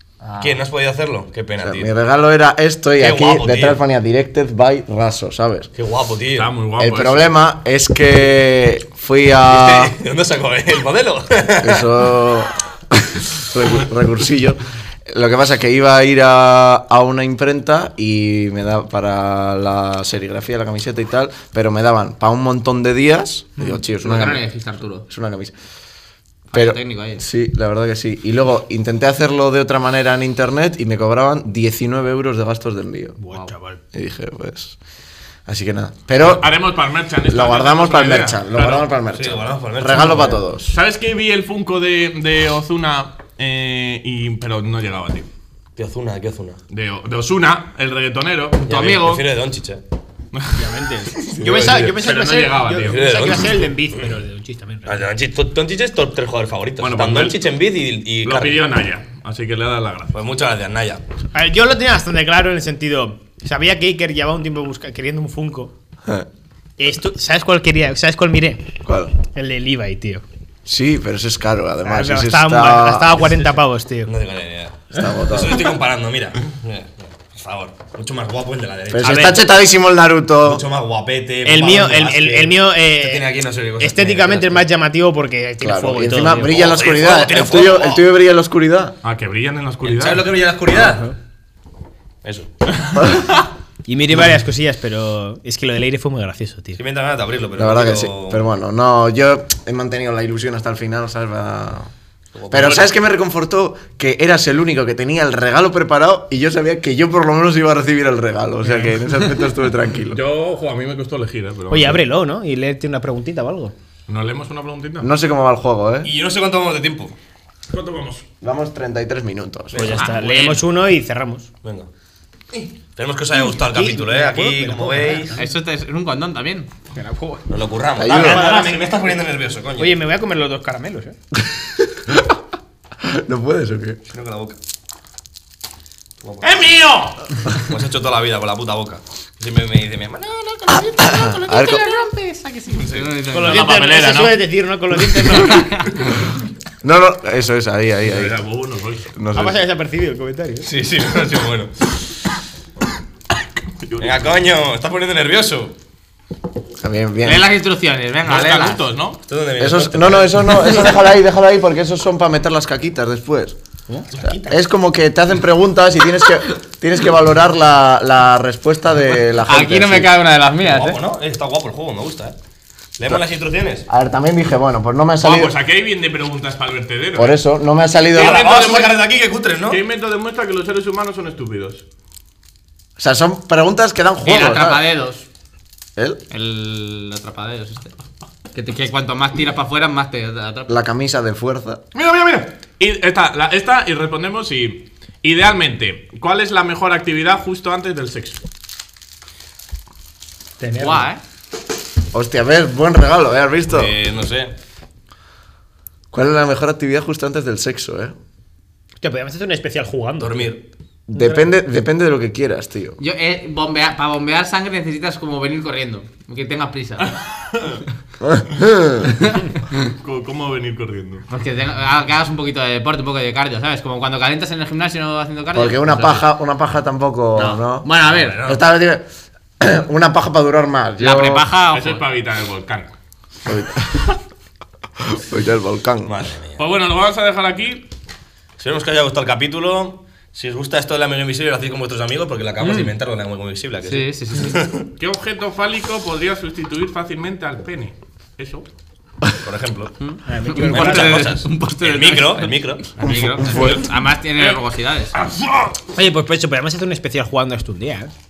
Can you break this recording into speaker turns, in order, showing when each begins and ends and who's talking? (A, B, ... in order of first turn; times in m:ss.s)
0:00.2-0:00.6 A
0:00.4-0:01.9 B
0:01.6-0:05.7 C
0:03.0-0:03.8 B
0:05.8-0:06.5 B
0:06.4-0:07.2 D
0:06.8-0:10.0 C
0:09.5-0:11.9 B
0:11.6-0:24.5 C
0:23.9-0:25.1 A
0:25.1-0:25.5 C
0:26.5-0:27.2 A
0:26.5-0:33.2 C
0:33.2-0:33.8 E
0:33.9-0:34.8 C
0:35.5-0:36.5 C
0:36.2-0:38.9 D
0:37.3-0:40.8 C
0:39.1-0:40.4 B
0:40.7-0:45.3 D
0:45.8-0:46.6 B
0:46.7-0:49.0 D
0:48.7-0:49.8 B
0:48.7-0:49.2 A
0:50.3-0:50.7 D
0:50.5-0:55.0 E
0:51.3-0:52.0 B
0:51.6-0:53.4 D
0:52.8-0:53.7 B
0:54.9-0:58.6 B
0:56.8-0:57.4 D
0:58.2-1:00.2 D
1:00.1-1:01.0 B
1:01.3-1:05.7 E
1:06.8-1:08.7 E
1:08.8-1:09.1 C
1:09.3-1:10.2 E
1:10.7-1:13.2 C
1:11.8-1:14.1 E
1:14.1-1:19.5 B
1:14.9-1:15.7 C
1:18.9-1:20.6 C
1:19.0-1:19.4 E
1:20.4-1:24.6 B
1:21.5-1:26.6 E
1:25.6-1:29.0 C
1:26.5-1:28.1 B
1:29.0-1:30.3 D
1:29.8-1:31.1 B
1:30.8-1:31.1 E
1:32.2-1:32.5 B
1:32.8-1:33.5 D
1:33.0-1:33.3 C
1:33.9-1:36.8 E
1:36.8-1:38.5 B
1:37.6-1:41.9 C
1:42.4-1:42.9 B
1:42.5-1:50.2 C
1:48.6-1:48.9 D
1:50.1-1:52.0 D
1:51.7-1:53.7 E
1:54.1-1:55.1 D
1:55.0-1:56.1 C
1:56.0-1:57.2 B
1:57.7-1:58.2 D
1:58.4-2:00.0 C
1:59.7-2:00.2 B
1:59.8-2:01.5 E
2:00.0-2:00.6 A
2:01.6-2:01.9 B
2:02.5-2:05.4 B
2:03.3-2:05.5 E
2:05.4-2:06.7 A
2:06.9-2:07.4 E
2:07.5-2:10.0 B
2:08.0-2:08.4 C
2:08.1-2:09.1 E
2:09.8-2:11.2 E
2:11.8-2:12.4 C
2:13.0-2:14.0 C
2:14.1-2:14.6 B
2:16.2-2:16.5 B
2:16.4-2:17.2 D
2:17.6-2:20.9 B
2:20.8-2:23.9 A
2:21.0-2:21.9 C
2:22.7-2:23.1 B
2:23.3-2:25.9 E
2:23.4-2:24.4 D
2:26.8-2:28.4 C
2:28.0-2:29.1 D
2:29.1-2:29.6 C
2:29.4-2:30.7 E
2:30.6-2:31.7 B
2:33.8-2:34.4 D
2:34.0-2:35.8 B
2:36.8-2:37.5 C
2:37.2-2:38.8 A
2:38.3-2:39.2 D
2:39.3-2:40.9 B
2:39.6-2:43.6 C
2:43.9-2:44.6 E
2:44.2-2:50.1 C
2:49.4-2:51.0 A
2:50.6-2:52.4 B
2:53.0-2:53.9 B
2:53.9-2:55.5 C
2:55.2-2:57.4 D
2:57.2-2:58.4 C
2:58.1-2:59.0 D
2:58.2-2:59.8 B
2:59.7-3:01.8 D
3:03.0-3:04.8 C
3:04.2-3:05.3 A
3:06.3-3:07.9 A
3:08.5-3:10.7 A
3:10.7-3:11.8 C
3:11.9-3:18.4 D
3:20.6-3:21.1 E
3:20.8-3:21.2 A
3:22.1-3:24.0 C
3:23.7-3:24.5 B
3:26.1-3:28.1 C
3:29.0-3:30.5 E
3:30.2-3:30.6 B
3:31.1-3:33.0 C
3:31.1-3:31.4 E
3:33.0-3:37.2 A
3:37.0-3:37.8 D
3:38.2-3:39.1 C
3:39.9-3:41.2 D
3:41.3-3:46.2 A
3:45.5-3:47.9 C
3:47.4-3:48.4 A
3:48.1-3:48.6 B
3:48.4-3:49.0 C
3:49.6-3:51.5 C
3:51.0-3:52.0 A
3:51.7-3:52.9 D
3:53.5-3:54.2 C
3:55.0-3:56.1 C
3:56.1-3:56.6 B
3:56.6-3:57.8 D
3:58.6-4:04.9 B
4:03.8-4:04.6 A
4:05.0-4:08.7 D
4:09.4-4:10.0 B
4:10.0-4:15.2 A
4:10.3-4:11.2 E
4:10.7-4:13.0 B
4:13.0-4:13.9 C
4:15.3-4:15.7 D
4:15.9-4:18.1 E